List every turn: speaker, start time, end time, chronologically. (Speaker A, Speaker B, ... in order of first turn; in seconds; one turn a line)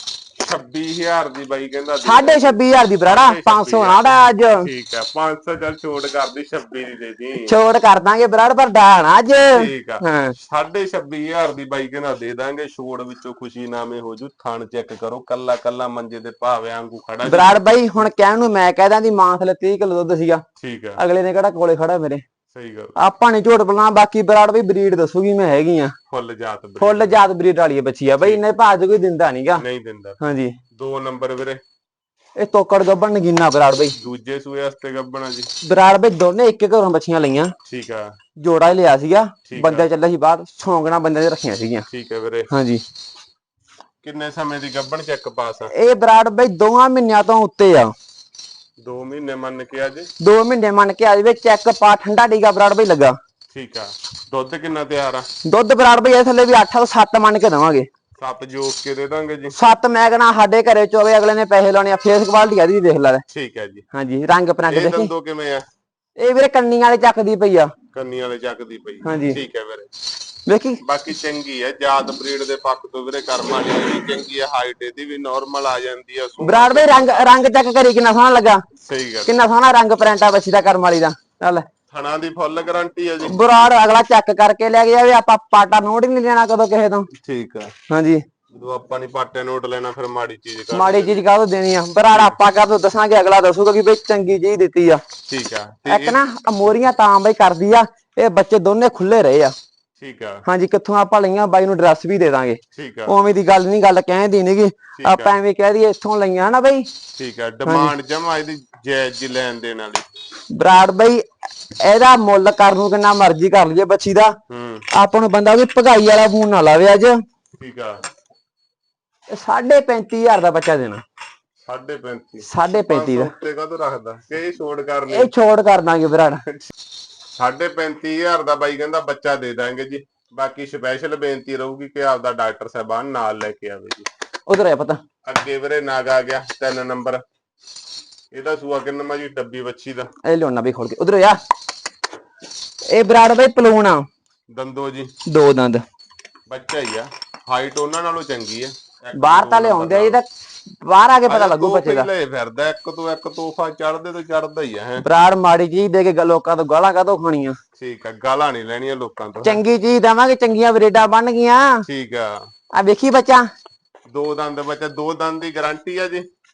Speaker A: 0.4-7.5
Speaker B: 2.0-4.7
Speaker B: 7.4-10.3
Speaker A: 9.5-17.6
Speaker B: 17.2-20.4
Speaker A: 20.6-21.0
Speaker B: 21.0-22.2
Speaker A: 22.5-23.0
Speaker B: 23.0-25.9
Speaker A: 26.1-27.2
Speaker B: 26.8-29.6
Speaker A: 29.6-30.2
Speaker B: 30.2-30.6
Speaker A: 30.8-31.6
Speaker B: 32.4-34.0
Speaker A: 34.0-35.5
Speaker B: 35.6-37.5
Speaker A: 37.7-38.2
Speaker B: 38.4-41.9
Speaker A: 39.5-39.9
Speaker A: 41.9-42.5
Speaker B: 42.5-42.8
Speaker A: 44.0-45.7
Speaker B: 45.7-47.9
Speaker A: 48.8-50.1
Speaker B: 50.2-53.2
Speaker A: 53.5-55.3
Speaker B: 55.4-57.9
Speaker A: 58.2-59.6
Speaker B: 59.5-63.2
Speaker A: 63.3-63.8
Speaker B: 63.9-65.1
Speaker A: 64.7-65.6
Speaker B: 66.2-67.7
Speaker A: 67.9-69.9
Speaker B: 69.0-69.4
Speaker B: 70.5-70.8
Speaker A: 70.8-77.4
Speaker B: 76.4-78.6
Speaker A: 78.8-79.4
Speaker B: 79.2-81.6
Speaker A: 81.9-83.5
Speaker B: 83.2-87.1
Speaker A: 87.1-87.7
Speaker B: 87.9-88.2
Speaker A: 88.5-91.2
Speaker B: 90.7-95.0
Speaker A: 92.1-92.4
Speaker A: 95.3-96.2
Speaker B: 95.9-99.5
Speaker A: 100.0-100.4
Speaker B: 100.4-106.9
Speaker A: 102.8-103.2
Speaker A: 105.0-105.4
Speaker A: 107.1-110.0
Speaker B: 107.7-107.9
Speaker B: 110.5-111.2
Speaker B: 111.8-114.4
Speaker A: 114.5-114.9
Speaker B: 114.9-117.2
Speaker A: 117.6-118.0
Speaker B: 119.3-121.0
Speaker A: 121.7-125.3
Speaker B: 122.5-123.3
Speaker B: 125.1-126.4
Speaker A: 127.3-134.1
Speaker B: 134.5-135.0
Speaker A: 135.2-137.2
Speaker A: 138.3-140.1
Speaker B: 140.2-141.4
Speaker B: 142.9-144.1
Speaker A: 144.5-145.1
Speaker B: 145.3-145.8
Speaker A: 146.5-150.2
Speaker B: 149.2-150.3
Speaker B: 150.8-152.1
Speaker A: 151.3-155.1
Speaker B: 155.0-157.6
Speaker A: 157.8-159.6
Speaker B: 159.4-161.8
Speaker A: 161.8-162.5
Speaker B: 162.7-163.5
Speaker A: 164.1-166.2